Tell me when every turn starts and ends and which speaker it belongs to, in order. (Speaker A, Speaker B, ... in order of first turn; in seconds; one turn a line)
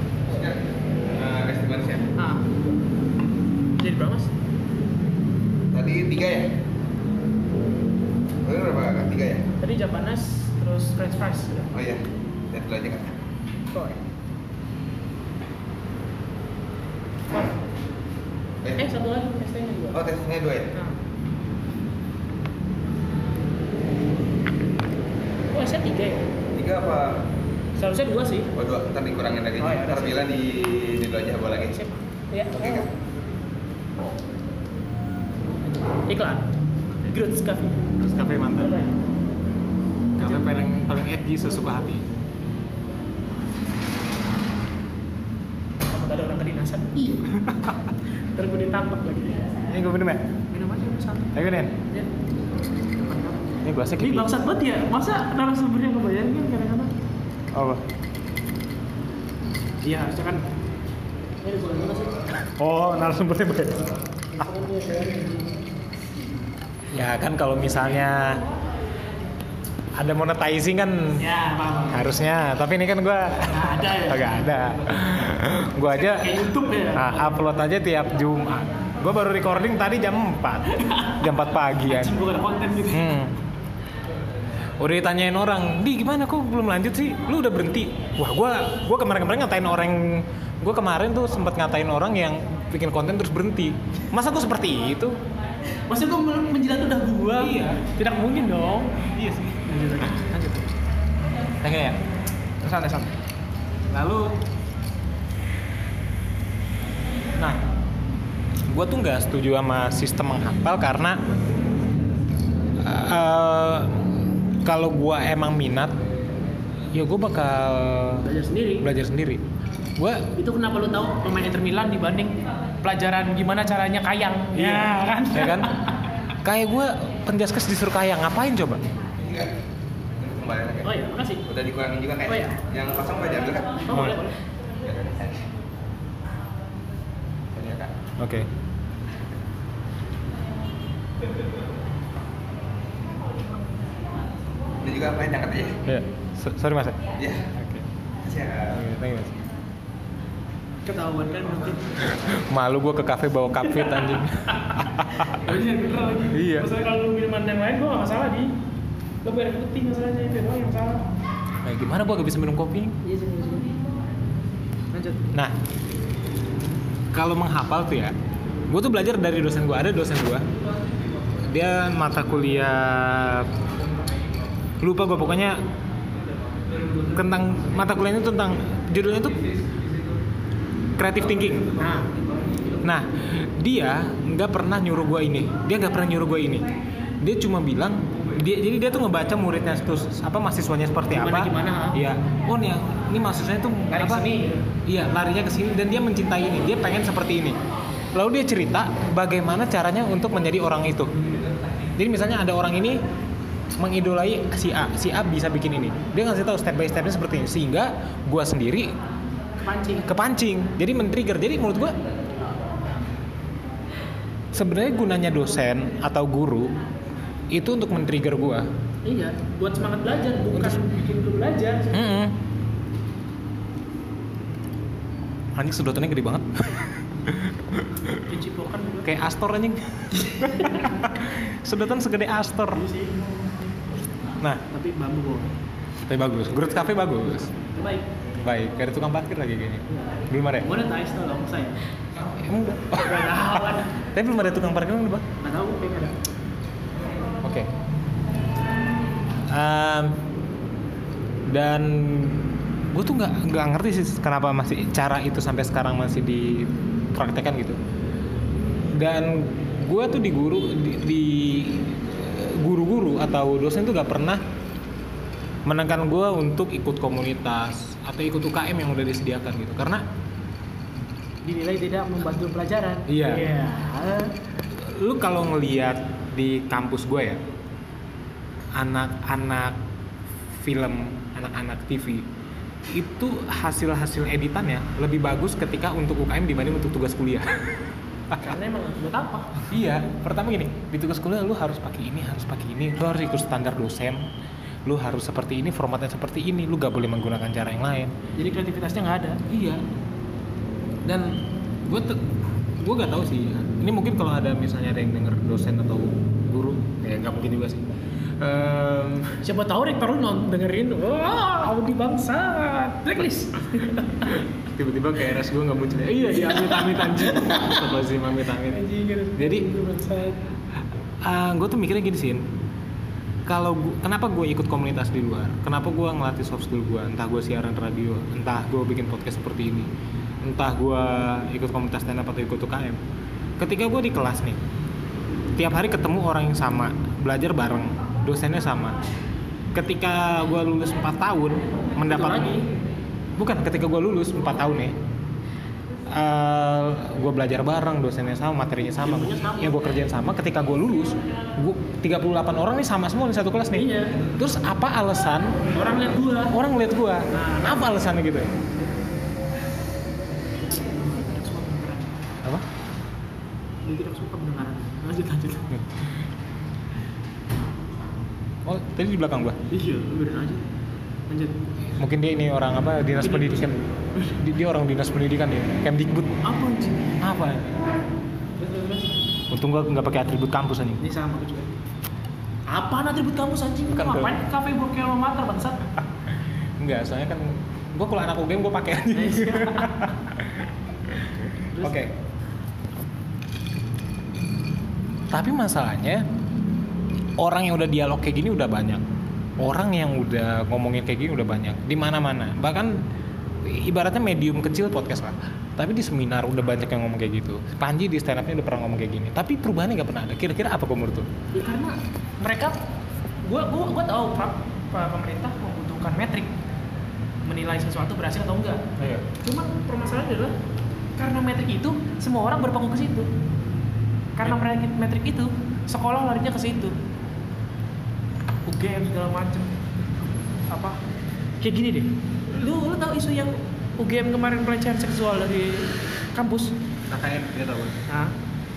Speaker A: 0.3-2.1
Speaker B: 2.2-2.5
Speaker B: 3.8-4.3
Speaker A: 5.7-6.5
Speaker A: 8.4-9.4
Speaker B: 9.6-11.8
Speaker A: 11.7-12.0
Speaker A: 12.5-13.2
Speaker B: 13.7-14.0
Speaker B: 18.8-20.0
Speaker A: 19.9-20.7
Speaker B: 25.5-26.3
Speaker A: 26.5-27.2
Speaker B: 27.8-28.5
Speaker A: 28.6-31.8
Speaker B: 29.6-30.3
Speaker B: 31.7-32.9
Speaker A: 32.5-32.9
Speaker B: 35.9-36.5
Speaker B: 37.0-37.9
Speaker C: 38.0-38.8
Speaker B: 38.5-38.9
Speaker C: 40.2-42.1
Speaker B: 40.2-40.5
Speaker B: 45.9-47.4
Speaker B: 48.3-49.5
Speaker C: 49.7-50.3
Speaker B: 50.5-51.3
Speaker C: 51.3-51.8
Speaker B: 53.0-53.4
Speaker C: 53.6-54.3
Speaker B: 54.0-56.9
Speaker C: 57.5-57.8
Speaker B: 59.8-60.5
Speaker B: 61.4-62.3
Speaker C: 62.5-64.0
Speaker B: 64.3-65.6
Speaker C: 66.9-68.4
Speaker C: 69.9-71.2
Speaker B: 71.2-72.1
Speaker C: 71.9-82.2
Speaker B: 73.5-74.5
Speaker B: 75.9-77.4
Speaker B: 80.8-81.2
Speaker B: 81.9-83.2
Speaker C: 82.9-83.3
Speaker C: 84.8-95.2
Speaker B: 95.8-98.9
Speaker C: 97.3-97.8
Speaker C: 99.1-99.7
Speaker B: 99.7-100.8
Speaker C: 101.4-102.0
Speaker B: 102.6-103.1
Speaker C: 103.9-104.4
Speaker C: 107.4-107.6
Speaker C: 108.7-111.2
Speaker C: 112.8-116.0
Speaker C: 116.9-118.3
Speaker B: 118.2-118.9
Speaker C: 118.8-119.4
Speaker C: 120.0-120.3
Speaker B: 120.3-126.0
Speaker C: 124.5-125.7
Speaker C: 126.4-128.9
Speaker A: 129.2-129.5
Speaker A: 130.2-130.9
Speaker B: 130.8-131.4
Speaker A: 131.5-133.8
Speaker B: 132.2-132.6
Speaker B: 133.8-134.4
Speaker C: 133.9-134.2
Speaker A: 134.8-135.4
Speaker A: 137.6-137.9
Speaker C: 138.2-138.5
Speaker A: 144.8-145.8
Speaker C: 145.9-147.9
Speaker A: 147.2-147.5
Speaker A: 148.2-148.8
Speaker C: 148.7-149.4
Speaker B: 150.9-152.1
Speaker C: 152.2-155.2
Speaker B: 154.6-158.5
Speaker C: 156.3-156.7
Speaker B: 159.2-161.1
Speaker C: 161.6-163.0
Speaker B: 163.0-163.8
Speaker B: 164.9-165.2
Speaker C: 167.1-168.2
Speaker C: 168.7-170.5
Speaker C: 171.5-173.5
Speaker C: 174.8-175.6
Speaker C: 177.1-179.4
Speaker C: 181.0-181.7
Speaker B: 181.8-182.1
Speaker C: 182.8-186.7
Speaker C: 187.2-194.3
Speaker B: 191.1-192.0
Speaker B: 193.9-194.6
Speaker C: 194.9-197.6
Speaker C: 198.1-201.1
Speaker C: 202.0-203.0
Speaker C: 203.7-208.9
Speaker B: 209.6-210.1
Speaker C: 210.0-212.0
Speaker C: 214.5-216.8
Speaker C: 217.5-218.7
Speaker B: 219.1-222.0
Speaker C: 220.5-220.8
Speaker C: 221.9-222.4
Speaker C: 225.6-228.2
Speaker B: 228.2-229.1
Speaker C: 229.0-232.8
Speaker B: 230.4-230.8
Speaker B: 232.7-233.7
Speaker B: 234.7-235.5
Speaker C: 236.1-237.5
Speaker B: 236.5-238.1
Speaker C: 238.4-240.7
Speaker B: 239.9-241.8
Speaker C: 242.1-245.3
Speaker B: 243.0-244.0
Speaker B: 245.4-246.2
Speaker C: 247.4-247.7
Speaker C: 249.5-250.2
Speaker C: 251.5-257.8
Speaker C: 258.9-264.4
Speaker C: 265.7-270.0
Speaker B: 271.4-274.3
Speaker C: 273.1-273.5
Speaker C: 274.7-277.4
Speaker C: 278.8-279.8
Speaker C: 280.6-282.3
Speaker C: 282.9-288.4
Speaker B: 288.4-289.6
Speaker C: 289.7-294.2
Speaker C: 294.9-298.1
Speaker B: 298.4-299.4
Speaker C: 299.5-299.8
Speaker C: 301.1-309.4
Speaker B: 309.4-314.4
Speaker C: 314.6-318.8
Speaker B: 316.2-317.9
Speaker B: 318.7-320.4
Speaker C: 319.4-319.7
Speaker C: 321.2-322.4
Speaker C: 323.5-329.9
Speaker C: 330.4-333.0
Speaker C: 333.6-334.6
Speaker C: 335.6-339.0
Speaker C: 339.7-342.5
Speaker B: 342.1-342.7
Speaker C: 343.4-345.0
Speaker C: 346.1-355.7
Speaker B: 348.9-349.8
Speaker B: 353.7-354.2
Speaker B: 355.7-356.6
Speaker C: 356.5-358.5
Speaker B: 357.3-358.0
Speaker B: 360.6-362.2
Speaker B: 363.9-365.8
Speaker C: 368.6-369.6
Speaker B: 369.7-370.6
Speaker B: 371.3-371.6
Speaker C: 371.9-376.4
Speaker B: 373.2-374.3
Speaker B: 376.4-377.2
Speaker C: 377.2-377.7
Speaker B: 378.6-379.1
Speaker C: 379.5-381.0
Speaker B: 381.0-381.7
Speaker B: 382.7-385.8
Speaker C: 383.9-384.4
Speaker C: 386.8-391.3
Speaker B: 389.1-390.1
Speaker B: 391.7-392.0
Speaker C: 391.8-392.1
Speaker C: 395.3-396.2
Speaker C: 397.4-399.0
Speaker C: 399.6-403.0
Speaker C: 403.6-411.3
Speaker B: 411.5-412.8
Speaker B: 413.4-416.5
Speaker B: 417.4-418.8
Speaker C: 419.0-419.2
Speaker B: 419.4-420.5
Speaker B: 421.2-423.3
Speaker B: 424.4-426.9
Speaker B: 428.7-429.7
Speaker B: 430.7-431.0
Speaker B: 431.6-436.7
Speaker C: 437.1-438.0
Speaker B: 438.1-438.3